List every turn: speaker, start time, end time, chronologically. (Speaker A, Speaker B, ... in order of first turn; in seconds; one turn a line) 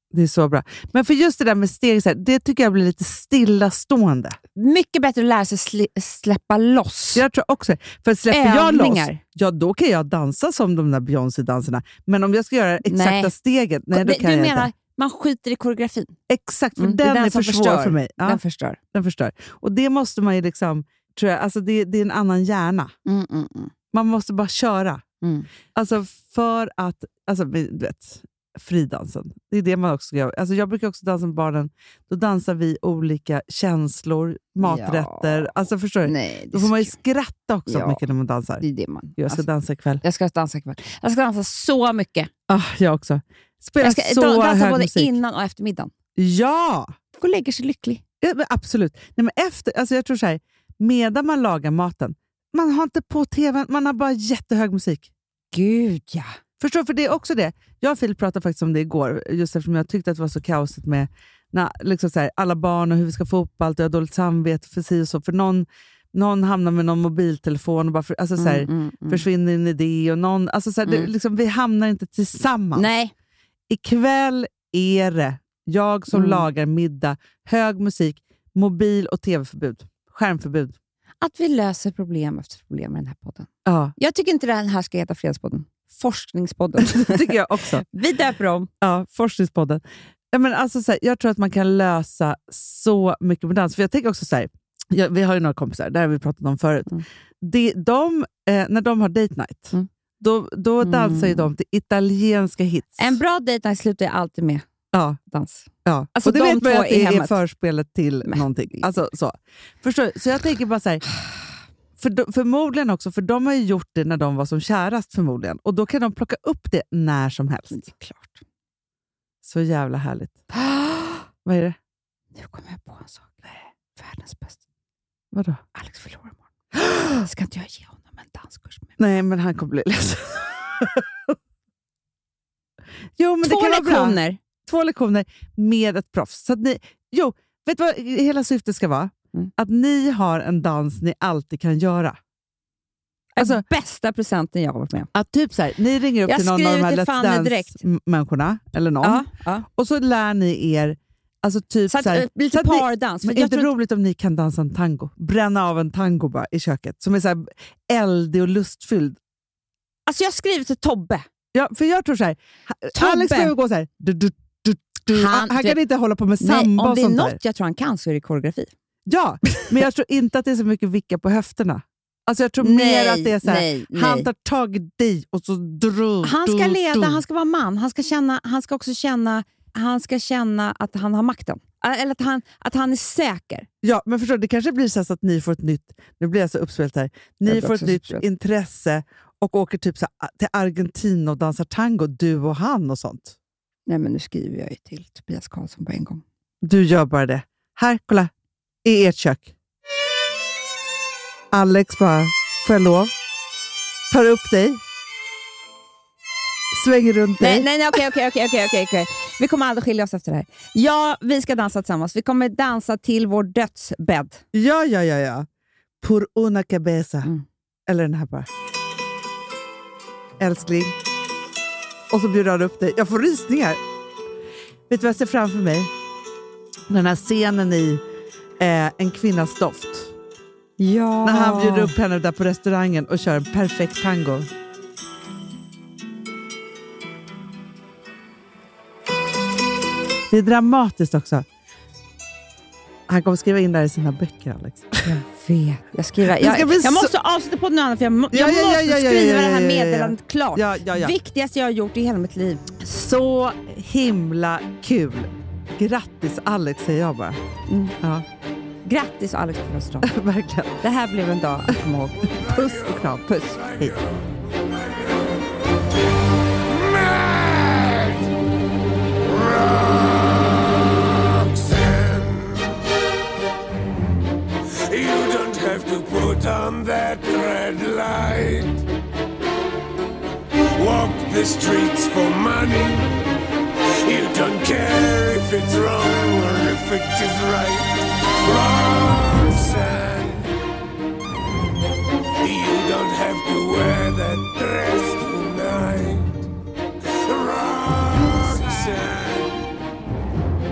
Speaker A: 0.1-4.4
Speaker B: 4.6-7.2
Speaker A: 7.2-14.7
Speaker B: 8.3-9.2
Speaker B: 12.9-13.3
Speaker B: 13.9-16.2
Speaker A: 16.3-18.4
Speaker B: 16.8-18.8
Speaker A: 18.9-22.9
Speaker B: 23.1-23.7
Speaker A: 23.9-25.0
Speaker B: 25.2-25.5
Speaker A: 25.8-38.6
Speaker B: 34.6-35.5
Speaker B: 36.0-37.0
Speaker B: 37.7-38.0
Speaker B: 38.6-39.4
Speaker A: 39.2-40.0
Speaker B: 40.0-42.3
Speaker A: 42.5-45.1
Speaker B: 43.8-45.9
Speaker A: 46.2-46.9
Speaker B: 47.2-48.0
Speaker A: 48.2-55.1
Speaker B: 55.5-56.4
Speaker A: 56.6-72.9
Speaker B: 68.4-69.2
Speaker B: 70.8-71.1
Speaker B: 72.8-73.1
Speaker A: 73.7-80.8
Speaker B: 76.1-76.5
Speaker B: 81.2-88.7
Speaker A: 83.7-83.9
Speaker A: 86.8-87.8
Speaker A: 88.8-103.2
Speaker B: 100.8-101.5
Speaker B: 103.0-104.7
Speaker A: 104.9-105.2
Speaker B: 105.3-107.4
Speaker A: 105.8-111.0
Speaker B: 108.3-109.0
Speaker A: 112.0-117.9
Speaker B: 117.7-118.4
Speaker A: 119.4-120.4
Speaker B: 120.5-121.3
Speaker A: 121.5-121.8
Speaker B: 122.3-124.6
Speaker A: 125.3-125.6
Speaker B: 125.8-126.4
Speaker A: 126.8-127.2
Speaker B: 127.2-128.9
Speaker A: 129.0-131.3
Speaker A: 133.2-142.2
Speaker B: 133.4-134.4
Speaker B: 143.3-145.1
Speaker A: 143.4-143.7
Speaker A: 145.1-159.2
Speaker B: 146.3-147.8
Speaker B: 149.0-149.7
Speaker B: 151.9-153.7
Speaker B: 160.1-161.2
Speaker A: 161.5-167.4
Speaker B: 162.9-163.5
Speaker B: 165.1-165.8
Speaker B: 166.4-168.7
Speaker A: 169.1-177.2
Speaker B: 172.6-174.3
Speaker B: 176.2-183.7
Speaker A: 183.8-193.4
Speaker B: 187.4-188.2
Speaker B: 193.9-196.2
Speaker A: 196.6-198.3
Speaker A: 198.8-199.5
Speaker A: 201.5-203.1
Speaker A: 204.1-204.8
Speaker A: 206.7-207.7
Speaker B: 207.4-214.4
Speaker A: 214.5-215.5
Speaker A: 216.0-217.3
Speaker A: 217.9-218.5
Speaker A: 220.4-221.0
Speaker A: 222.1-223.8
Speaker A: 224.9-225.9
Speaker A: 226.9-228.0
Speaker A: 228.6-230.2
Speaker B: 230.8-231.9
Speaker A: 231.2-234.5
Speaker A: 240.3-241.5
Speaker A: 243.1-245.2
Speaker B: 245.1-252.7
Speaker A: 246.2-247.1
Speaker A: 248.3-251.2
Speaker A: 252.8-257.4
Speaker B: 257.7-258.0
Speaker B: 258.9-260.1
Speaker A: 260.0-260.8
Speaker B: 260.8-262.3
Speaker C: 262.2-265.6
Speaker A: 262.3-264.0
Speaker B: 263.3-263.6
Speaker C: 266.6-268.3
Speaker C: 269.2-272.8
Speaker C: 274.9-278.8
Speaker C: 280.8-283.1
Speaker C: 284.1-290.6
Speaker C: 292.4-296.4
Speaker C: 297.1-299.6